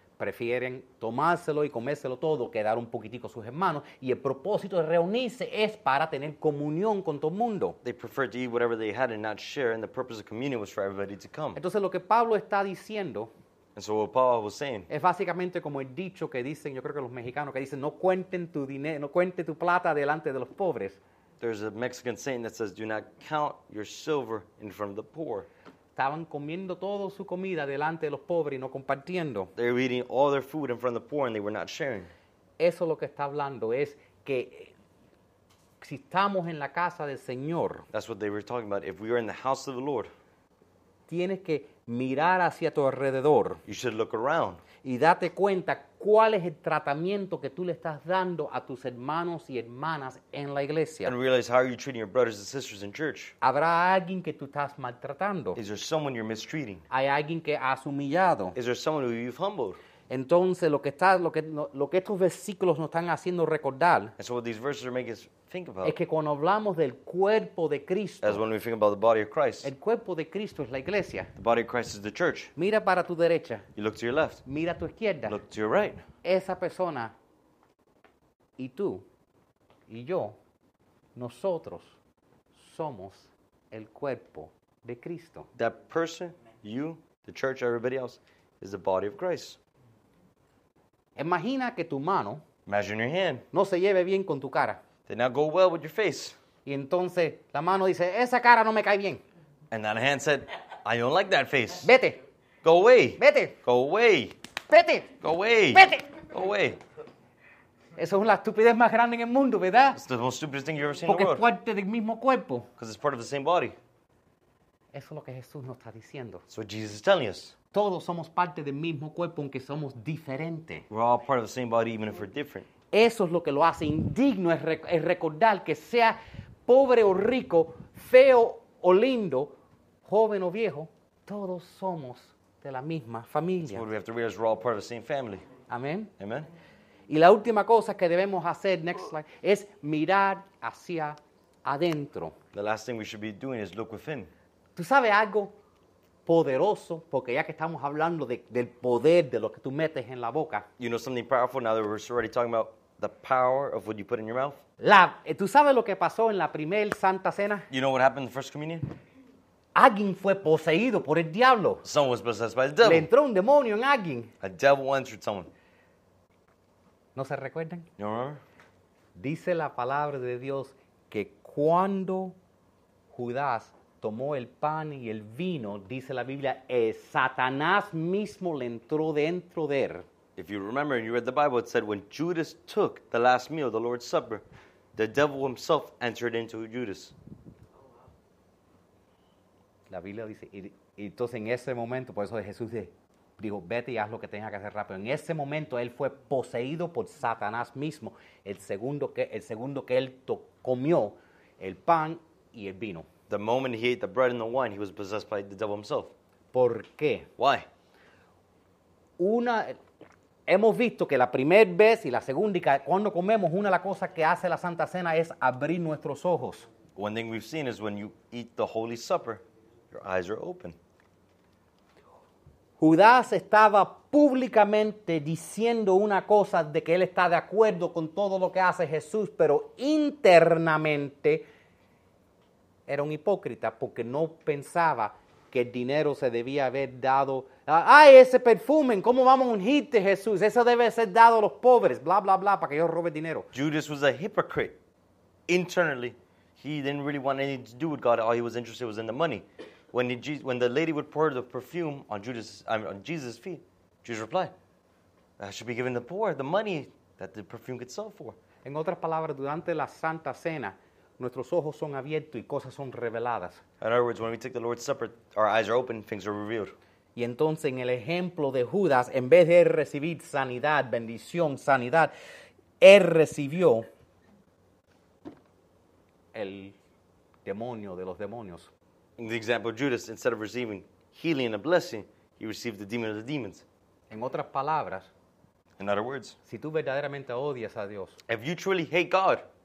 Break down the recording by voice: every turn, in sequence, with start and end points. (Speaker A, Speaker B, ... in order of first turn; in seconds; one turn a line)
Speaker A: 0.2-7.8
Speaker B: 7.8-11.6
Speaker A: 11.6-13.3
Speaker B: 13.8-14.9
Speaker A: 14.9-21.0
Speaker B: 21.4-25.5
Speaker A: 25.9-29.5
Speaker B: 29.6-32.1
Speaker A: 32.6-34.7
Speaker A: 35.8-37.8
Speaker B: 37.9-40.1
Speaker A: 41.1-43.6
Speaker B: 43.6-44.6
Speaker A: 44.8-51.1
Speaker B: 51.0-53.4
Speaker A: 53.4-55.6
Speaker B: 55.5-56.8
Speaker A: 56.9-58.5
Speaker B: 58.5-59.8
Speaker A: 60.1-64.1
Speaker B: 64.2-66.0
Speaker A: 65.8-68.4
Speaker B: 68.2-69.7
Speaker A: 69.6-71.3
Speaker B: 71.3-72.5
Speaker A: 72.5-73.7
Speaker B: 73.8-74.4
Speaker A: 74.5-75.4
Speaker B: 75.3-76.0
Speaker A: 76.2-77.1
Speaker A: 78.6-79.0
Speaker A: 79.9-80.4
Speaker A: 81.2-82.0
Speaker A: 82.5-85.5
Speaker B: 85.5-89.6
Speaker A: 91.2-92.4
Speaker B: 92.7-93.5
Speaker A: 93.5-94.8
Speaker B: 95.1-96.4
Speaker A: 96.7-99.2
Speaker B: 99.7-101.9
Speaker A: 101.8-102.2
Speaker B: 102.6-104.3
Speaker A: 103.2-103.5
Speaker A: 104.7-105.1
Speaker B: 105.2-106.8
Speaker A: 105.7-106.0
Speaker A: 108.0-110.0
Speaker B: 109.9-111.4
Speaker A: 111.1-112.7
Speaker B: 112.8-113.8
Speaker A: 114.9-116.4
Speaker B: 116.5-117.5
Speaker A: 117.7-120.8
Speaker B: 120.9-122.7
Speaker A: 122.9-133.8
Speaker B: 133.7-135.4
Speaker A: 135.7-136.1
Speaker B: 136.2-136.5
Speaker A: 137.1-142.4
Speaker B: 142.5-144.3
Speaker A: 144.8-145.5
Speaker A: 146.2-150.7
Speaker B: 150.8-154.6
Speaker A: 154.8-157.7
Speaker B: 157.7-158.9
Speaker A: 159.7-161.8
Speaker B: 161.8-163.1
Speaker A: 162.8-164.3
Speaker B: 164.4-165.5
Speaker A: 167.1-167.9
Speaker B: 168.0-168.4
Speaker A: 169.2-172.3
Speaker A: 173.1-180.0
Speaker B: 180.3-184.4
Speaker B: 184.9-187.1
Speaker A: 189.9-203.1
Speaker B: 203.3-206.1
Speaker A: 206.5-207.3
Speaker B: 207.4-207.7
Speaker A: 209.2-209.8
Speaker A: 210.5-216.7
Speaker B: 216.9-220.8
Speaker A: 222.8-231.4
Speaker A: 232.9-243.5
Speaker B: 243.5-244.8
Speaker B: 245.5-254.5
Speaker B: 255.4-258.4
Speaker A: 258.6-263.6
Speaker B: 263.8-266.8
Speaker A: 267.1-272.1
Speaker A: 272.8-273.9
Speaker A: 276.3-276.8
Speaker A: 277.4-278.7
Speaker B: 279.2-283.6
Speaker A: 284.1-285.1
Speaker B: 285.8-286.4
Speaker A: 286.4-288.2
Speaker B: 288.3-289.4